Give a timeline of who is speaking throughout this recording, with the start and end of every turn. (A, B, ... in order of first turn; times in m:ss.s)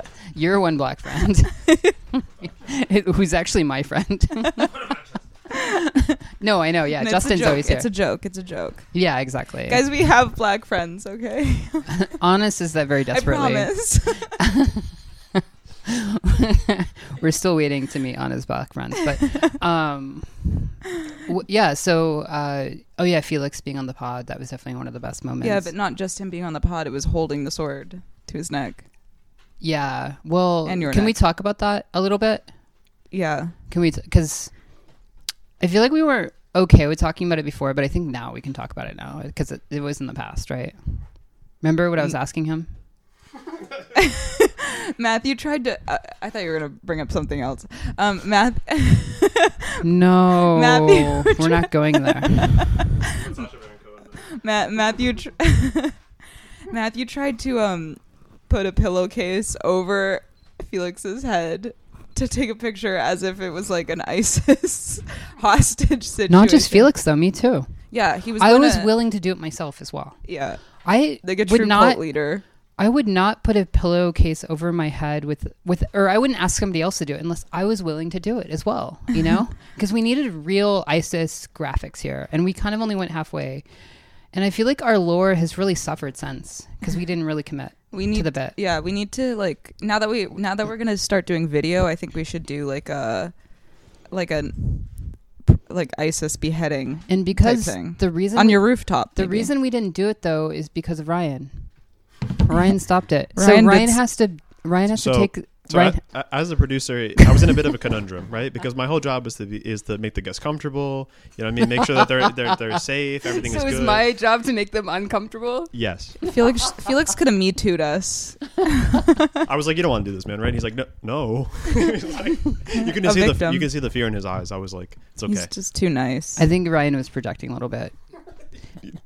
0:00.3-0:04.9 A
0:05.5-0:06.2 B
0:06.4-0:07.9 A
0:06.9-0:12.2 B
0:08.9-0:09.8 A
0:12.1-0:14.9 A
0:13.1-0:14.4 B
0:16.0-0:25.7 A
0:25.4-0:28.8 B
0:29.6-0:32.5 A
0:30.6-0:31.2 B
0:33.1-0:33.5 B
0:33.7-0:34.6 A
0:35.6-0:42.7 A
0:43.9-0:53.5 B
0:49.8-0:52.7 A
0:53.3-0:54.1 C
0:54.2-0:56.0 B
0:56.7-1:06.9 B
1:06.3-1:07.8 A
1:07.9-1:08.9 B
1:08.4-1:12.0 A
1:10.2-1:12.4 B
1:12.8-1:23.7 A
1:24.3-1:28.6 A
1:27.9-1:39.5 B
1:37.1-1:46.0 A
1:43.3-1:44.0 B
1:44.9-1:54.0 C
1:53.4-1:56.5 A
1:55.7-1:56.2 C
1:56.2-1:59.2 B
1:59.4-2:05.5 C
2:02.9-2:03.7 B
2:05.3-2:06.5 B
2:06.4-2:07.9 A